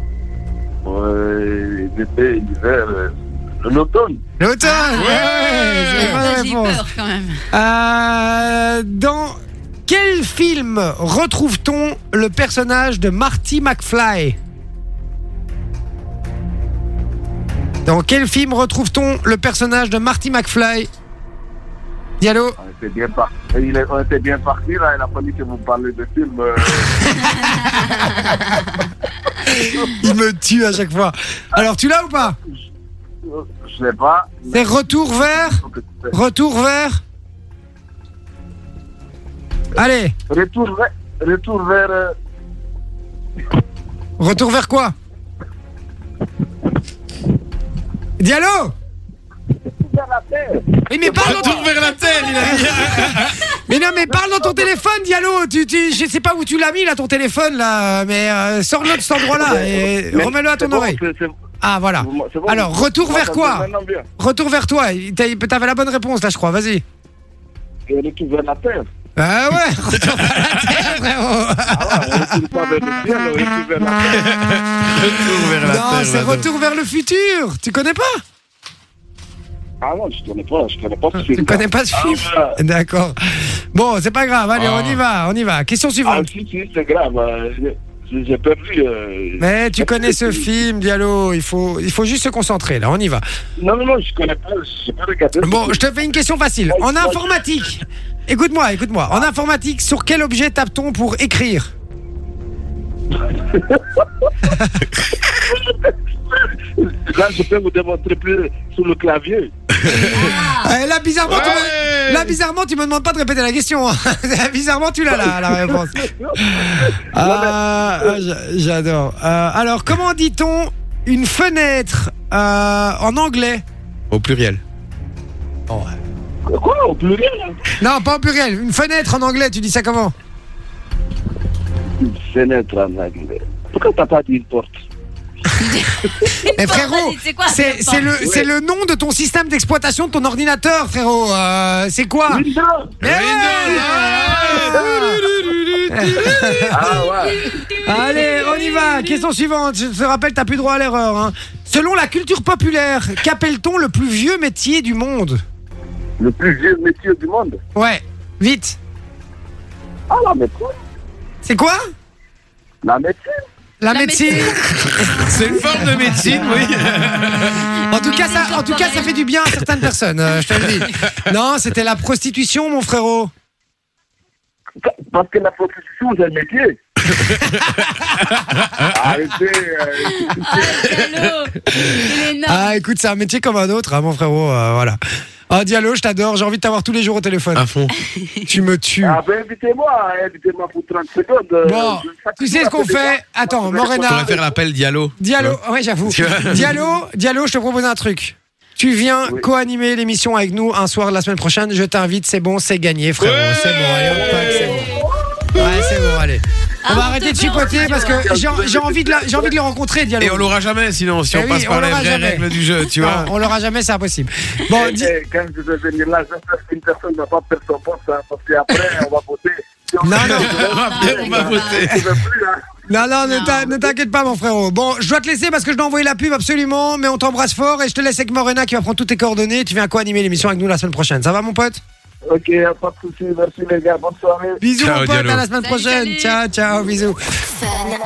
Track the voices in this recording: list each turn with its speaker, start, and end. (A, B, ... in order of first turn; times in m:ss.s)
0:00.8-0:04.2 A
0:04.4-0:06.8 B
0:04.6-0:05.3 C
0:05.0-0:06.2 D
0:05.9-0:07.4 C
0:07.5-0:14.4 B
0:17.8-0:20.9 B
0:22.2-0:22.6 B
0:22.6-0:27.5 A
0:27.0-0:28.2 B
0:29.4-0:32.4 B
0:31.6-0:32.6 A
0:33.2-0:36.1 A
0:34.5-0:35.6 B
0:36.1-0:37.0 B
0:39.8-0:40.2 B
0:40.3-0:42.1 A
0:44.2-0:44.9 B
0:48.2-0:48.7 B
0:49.7-0:51.7 A
0:50.9-0:51.7 B
0:51.1-0:53.5 D
0:52.3-1:01.0 B
0:54.1-0:54.7 A
0:59.2-1:01.3 A
1:01.6-1:03.7 B
1:02.0-1:04.1 A
1:04.2-1:06.8 B
1:07.9-1:08.9 A
1:09.2-1:12.3 B
1:11.7-1:14.2 A
1:14.0-1:16.4 D
1:15.6-1:18.2 B
1:19.8-1:22.6 A
1:21.2-1:23.2 B
1:23.7-1:26.3 B
1:24.5-1:25.0 D
1:26.0-1:30.5 A
1:29.4-1:33.2 B
1:33.6-1:35.8 A
1:35.4-1:41.7 B
1:36.7-1:37.6 A
1:43.2-1:44.0 A
1:44.4-1:44.7 B
1:45.3-1:49.5 A
1:49.8-1:50.2 D
1:50.1-1:50.7 C
1:50.6-2:03.6 B
1:51.2-1:52.4 D
1:55.1-1:58.2 A
2:04.1-2:04.6 D
2:05.7-2:06.0 B
2:06.4-2:07.8 A
2:07.8-2:10.1 B
2:12.0-2:14.8 A
2:15.6-2:18.1 C
2:16.5-2:22.4 B
2:18.2-2:18.5 A
2:22.3-2:23.0 A
2:23.0-2:25.2 B
2:23.0-2:26.8 D
2:23.5-2:24.5 C
2:25.9-2:27.0 B
2:26.7-2:27.5 A
2:27.0-2:29.3 C
2:27.8-2:35.4 B
2:36.2-2:37.6 A
2:37.8-2:38.8 B
2:40.1-2:40.8 A
2:41.4-2:41.8 B
2:42.8-2:43.2 A
2:43.8-2:44.6 B
2:43.9-2:45.9 C
2:45.0-2:47.6 D
2:47.5-2:49.3 C
2:47.9-2:53.3 B
2:50.6-2:50.9 D
2:54.8-2:56.8 A
2:57.1-2:59.0 D
2:58.9-3:00.8 A
3:00.0-3:02.8 C
3:01.7-3:05.0 B
3:05.5-3:07.6 B
3:07.5-3:07.9 D
3:08.5-3:09.2 B
3:09.0-3:14.5 A
3:11.6-3:14.4 B
3:13.9-3:16.7 D
3:15.2-3:24.9 B
3:23.2-3:24.9 D
3:24.1-3:25.0 A
3:24.4-3:25.0 C
3:25.6-3:30.5 B
3:26.8-3:28.3 C
3:27.4-3:29.5 A
3:30.2-3:33.3 D
3:31.3-3:35.1 B
3:34.7-3:42.7 A
3:40.0-3:40.6 B
3:40.1-3:42.2 D
3:40.5-3:41.9 C
3:42.9-3:51.8 B
3:43.2-3:43.7 C
3:52.2-3:54.6 A
3:54.6-3:57.2 B
3:54.8-3:55.5 D
3:55.6-3:56.4 C